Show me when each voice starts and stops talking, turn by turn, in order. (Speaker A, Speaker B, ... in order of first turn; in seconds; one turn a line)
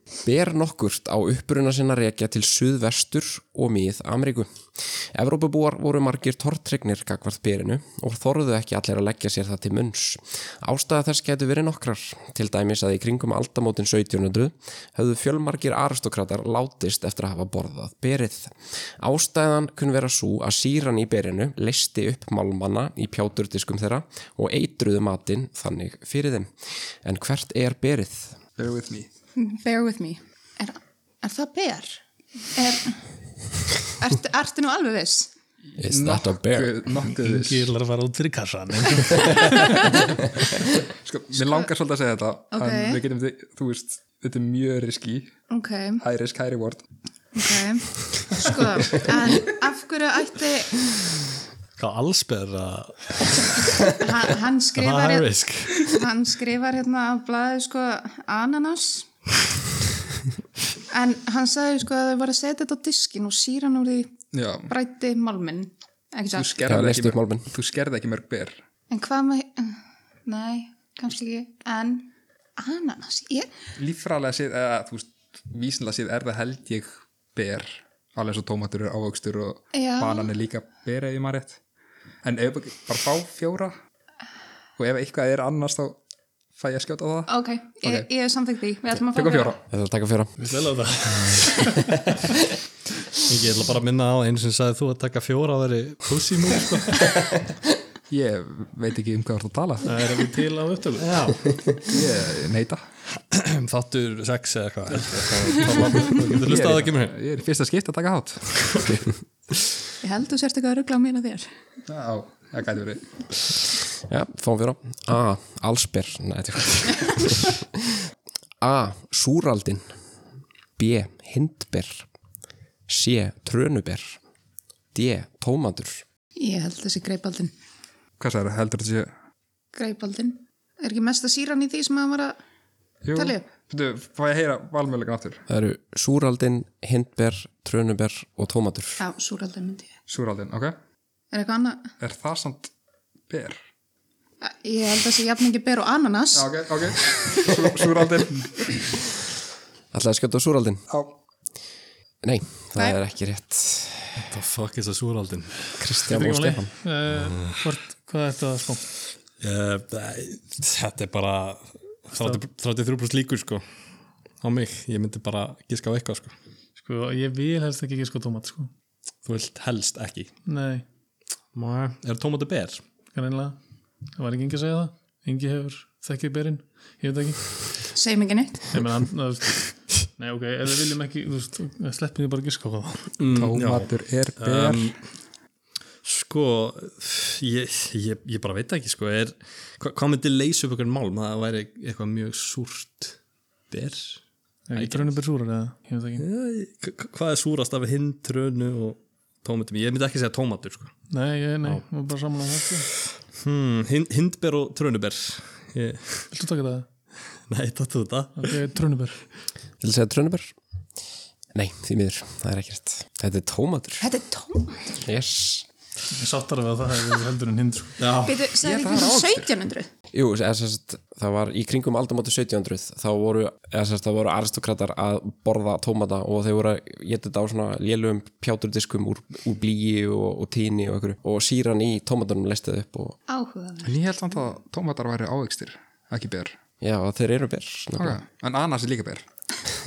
Speaker A: 0.2-26.5
Speaker A: 27.0-28.4
Speaker B: 28.6-29.1
Speaker C: 29.4-32.0
Speaker C: 32.5-33.0
Speaker C: 33.9-35.3
Speaker B: 35.7-37.7
Speaker A: 35.8-36.7
Speaker D: 37.1-40.0
Speaker B: 40.9-45.3
Speaker C: 41.4-41.6
Speaker C: 42.5-43.0
Speaker C: 45.5-46.0
Speaker B: 46.0-46.8
Speaker C: 47.3-50.9
Speaker B: 48.4-49.0
Speaker E: 51.8-53.8
Speaker C: 53.9-59.1
Speaker E: 54.8-56.0
Speaker C: 60.9-64.2
Speaker B: 64.3-64.7
Speaker C: 64.7-66.6
Speaker B: 66.3-68.6
Speaker A: 66.7-67.5
Speaker C: 68.9-73.5
Speaker B: 73.8-81.6
Speaker C: 79.7-80.3
Speaker B: 82.2-83.7
Speaker B: 84.8-86.0
Speaker B: 86.5-88.1
Speaker C: 87.3-89.6
Speaker B: 89.1-89.6
Speaker A: 89.7-90.4
Speaker D: 90.4-92.0
Speaker E: 93.2-97.3
Speaker B: 98.1-99.9
Speaker D: 99.8-101.2
Speaker E: 101.0-101.6
Speaker B: 101.8-102.8
Speaker E: 103.3-107.2
Speaker B: 105.1-109.1
Speaker C: 110.0-111.5
Speaker B: 111.9-113.1
Speaker A: 114.1-118.1
Speaker A: 118.6-119.9
Speaker A: 120.8-122.1
Speaker A: 122.9-124.2
Speaker A: 124.9-126.0
Speaker C: 126.4-127.5
Speaker B: 128.2-129.1
Speaker C: 129.7-132.4
Speaker B: 133.0-135.4
Speaker C: 133.1-133.5
Speaker A: 135.5-139.0
Speaker C: 139.0-140.0
Speaker B: 140.1-140.7
Speaker C: 141.3-141.9
Speaker B: 142.0-142.7
Speaker B: 143.3-143.6
Speaker C: 144.4-146.5
Speaker B: 146.3-148.9
Speaker A: 149.9-150.8
Speaker B: 150.9-151.1
Speaker A: 152.2-154.3
Speaker E: 154.3-155.7
Speaker A: 155.8-156.7
Speaker D: 156.1-158.8
Speaker E: 157.2-157.6
Speaker E: 159.4-163.6
Speaker D: 162.1-162.4
Speaker E: 164.4-166.3
Speaker D: 166.8-168.7
Speaker E: 169.2-170.3
Speaker D: 170.4-170.8
Speaker E: 171.5-172.8
Speaker D: 173.1-173.6
Speaker D: 174.2-177.7
Speaker C: 177.9-178.7
Speaker D: 178.7-183.1
Speaker E: 183.2-185.0
Speaker B: 183.3-184.9
Speaker E: 186.0-193.2
Speaker E: 193.7-194.2
Speaker D: 194.7-196.2
Speaker E: 194.7-195.1
Speaker E: 196.2-200.9
Speaker D: 201.1-202.9
Speaker E: 203.3-206.3
Speaker D: 206.3-206.9
Speaker E: 207.5-208.5
Speaker D: 208.4-209.2
Speaker A: 209.8-210.5
Speaker A: 211.5-214.1
Speaker C: 214.0-214.9
Speaker A: 215.0-215.7
Speaker D: 216.1-218.0
Speaker E: 218.0-218.4
Speaker C: 218.2-219.9
Speaker B: 218.6-219.5
Speaker A: 220.1-233.2
Speaker C: 233.3-234.0
Speaker B: 233.8-236.6
Speaker A: 236.8-238.2
Speaker B: 238.0-239.3